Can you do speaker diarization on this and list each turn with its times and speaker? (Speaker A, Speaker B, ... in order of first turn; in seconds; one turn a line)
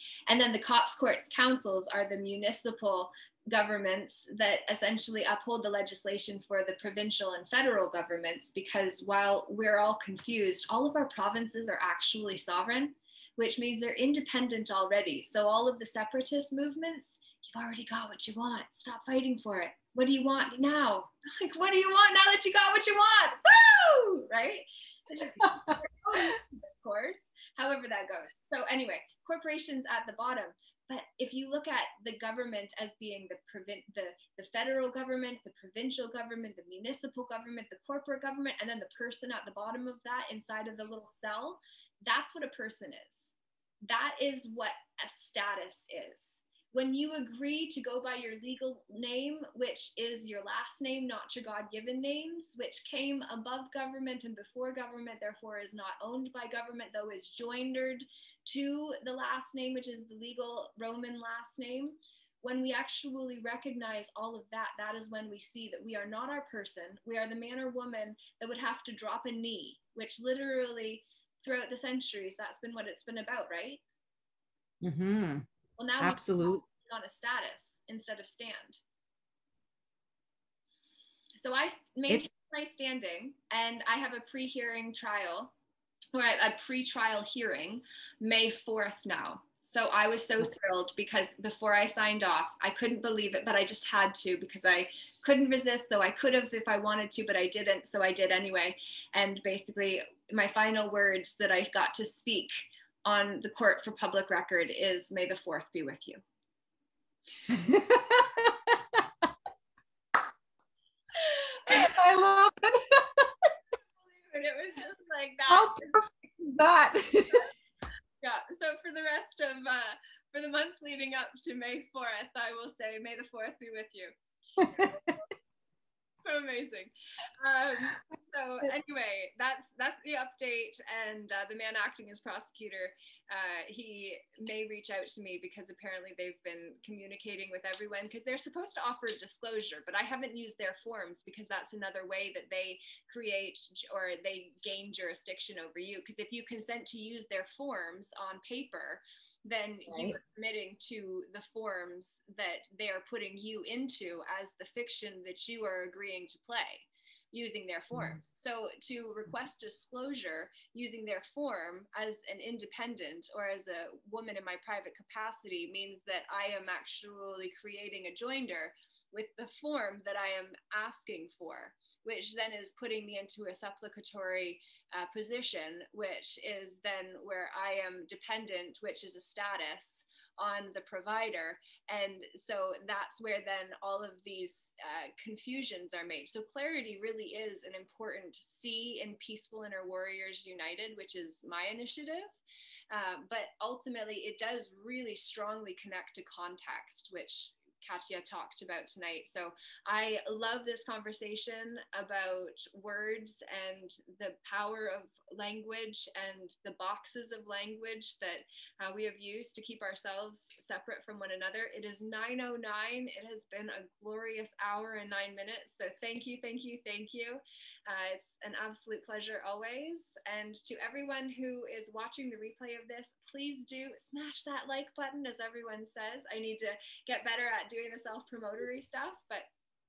Speaker A: 0.3-43.3
Speaker B: 25.4-26.4
Speaker A: 43.8-73.8
Speaker B: 74.8-75.4
Speaker A: 75.8-78.8
Speaker B: 76.0-76.6
Speaker A: 81.4-85.5
Speaker A: 86.1-106.2
Speaker B: 107.5-109.3
Speaker A: 111.3-111.9
Speaker B: 111.7-113.5
Speaker A: 114.0-115.9
Speaker B: 115.5-117.5
Speaker A: 118.2-124.1
Speaker B: 124.6-125.0
Speaker A: 124.6-125.2
Speaker A: 126.2-192.4
Speaker B: 149.9-150.2
Speaker B: 157.9-158.2
Speaker A: 192.9-229.5